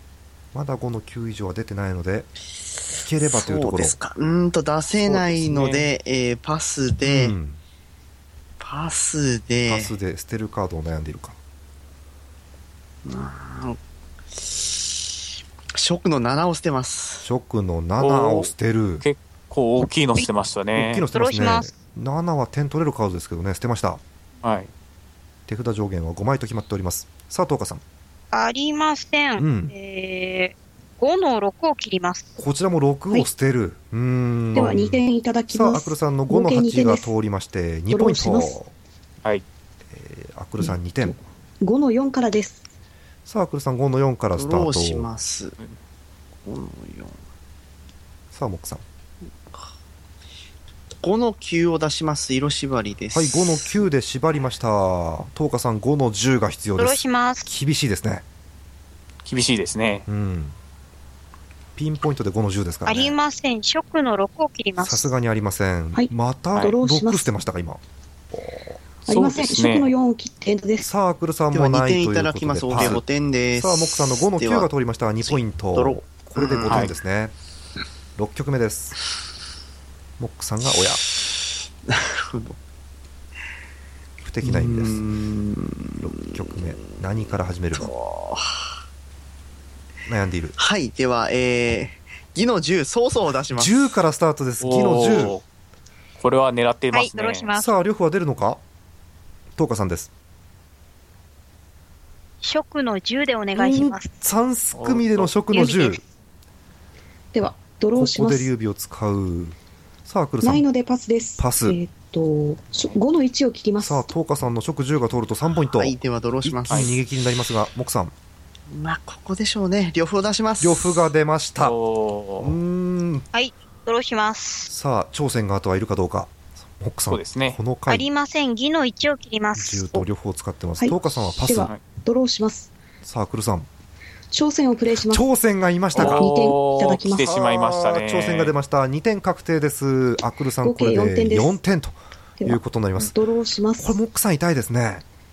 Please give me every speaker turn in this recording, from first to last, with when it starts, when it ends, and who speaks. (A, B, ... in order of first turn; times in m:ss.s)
0:00.5-0:02.3 A
0:03.0-0:04.0 A
0:03.2-0:07.3 B
0:05.0-0:05.9 C
0:07.0-0:07.6 A
0:08.6-0:09.9 B
0:09.7-0:11.4 A
0:13.0-0:13.8 B
0:14.3-0:15.1 B
0:15.7-0:17.3 B
0:17.2-0:19.0 A
0:18.0-0:18.5 C
0:19.0-0:21.0 C
0:20.8-0:24.0 A
0:21.1-0:21.7 D
0:24.4-0:24.7 C
0:25.5-0:27.8 A
0:28.3-0:32.4 D
0:29.4-0:29.7 A
0:32.4-0:38.7 A
0:34.5-0:37.1 E
0:37.9-0:38.6 E
0:39.9-0:41.2 A
0:40.6-0:42.6 E
0:43.2-0:45.1 A
0:44.3-0:45.6 B
0:46.4-0:47.2 B
0:48.3-0:48.8 A
0:51.0-0:53.7 B
0:53.1-0:58.2 A
0:56.8-0:57.5 D
0:59.2-1:00.1 C
1:00.1-1:00.6 A
1:01.8-1:03.1 A
1:02.8-1:05.1 D
1:04.8-1:07.8 A
1:05.9-1:07.3 E
1:08.3-1:08.8 A
1:09.0-1:09.9 C
1:09.0-1:10.9 E
1:10.8-1:13.0 A
1:11.5-1:14.7 B
1:12.7-1:13.0 C
1:13.5-1:17.3 A
1:15.2-1:16.9 B
1:18.2-1:19.0 A
1:20.2-1:21.0 A
1:21.8-1:22.6 B
1:24.2-1:25.0 A
1:24.4-1:28.8 B
1:26.0-1:27.9 A
1:30.1-1:30.5 A
1:30.6-1:33.8 B
1:33.5-1:35.4 A
1:34.6-1:35.4 C
1:36.2-1:37.5 C
1:36.9-1:37.7 D
1:37.5-1:38.6 A
1:39.6-1:40.1 A
1:42.4-1:44.1 D
1:43.5-1:46.0 A
1:44.7-1:45.3 C
1:45.5-1:46.0 D
1:47.3-1:48.5 E
1:47.9-1:50.6 A
1:50.4-1:54.1 E
1:51.4-1:51.8 A
1:53.8-1:58.1 A
1:55.7-1:57.0 B
1:58.7-2:01.0 B
2:00.6-2:01.7 A
2:01.6-2:02.6 C
2:02.4-2:03.2 A
2:03.3-2:04.7 D
2:04.7-2:08.1 A
2:07.1-2:07.6 C
2:07.9-2:10.0 D
2:09.5-2:11.7 A
2:10.8-2:12.7 E
2:13.0-2:13.7 A
2:14.3-2:15.2 E
2:15.0-2:16.3 A
2:15.9-2:18.5 C
2:16.0-2:17.3 E
2:17.2-2:23.1 A
2:20.6-2:21.6 E
2:23.1-2:24.0 E
2:23.8-2:25.0 A